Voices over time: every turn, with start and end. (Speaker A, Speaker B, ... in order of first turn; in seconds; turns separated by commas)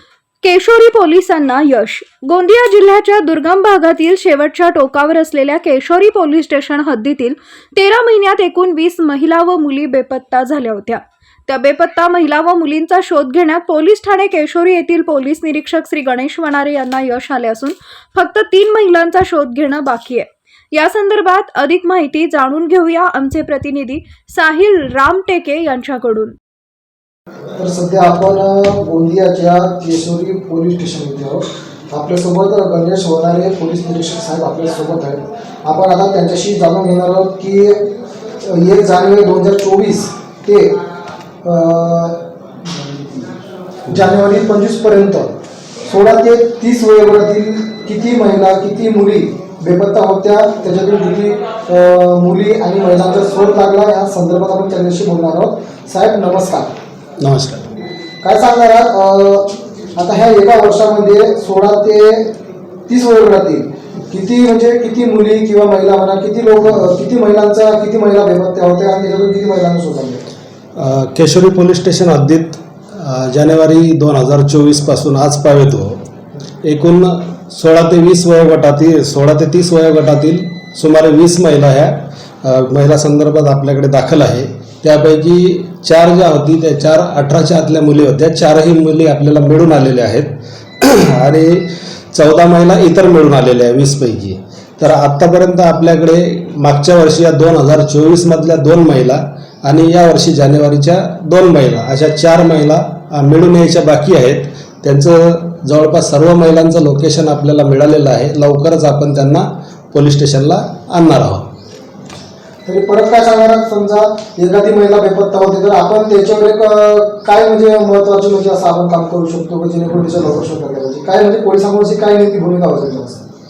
Speaker A: 0.4-26.3, Speaker B: 27.6-37.8, Speaker B: 38.4-40.8, Speaker B: 41.4-43.3, Speaker B: 43.9-45.3, Speaker B: 45.8-56.7, Speaker C: 57.2-57.7, Speaker B: 58.2-62.3, Speaker B: 62.9-70.3, Speaker C: 70.8-76.0, Speaker C: 76.6-111.5, Speaker B: 112.7-123.2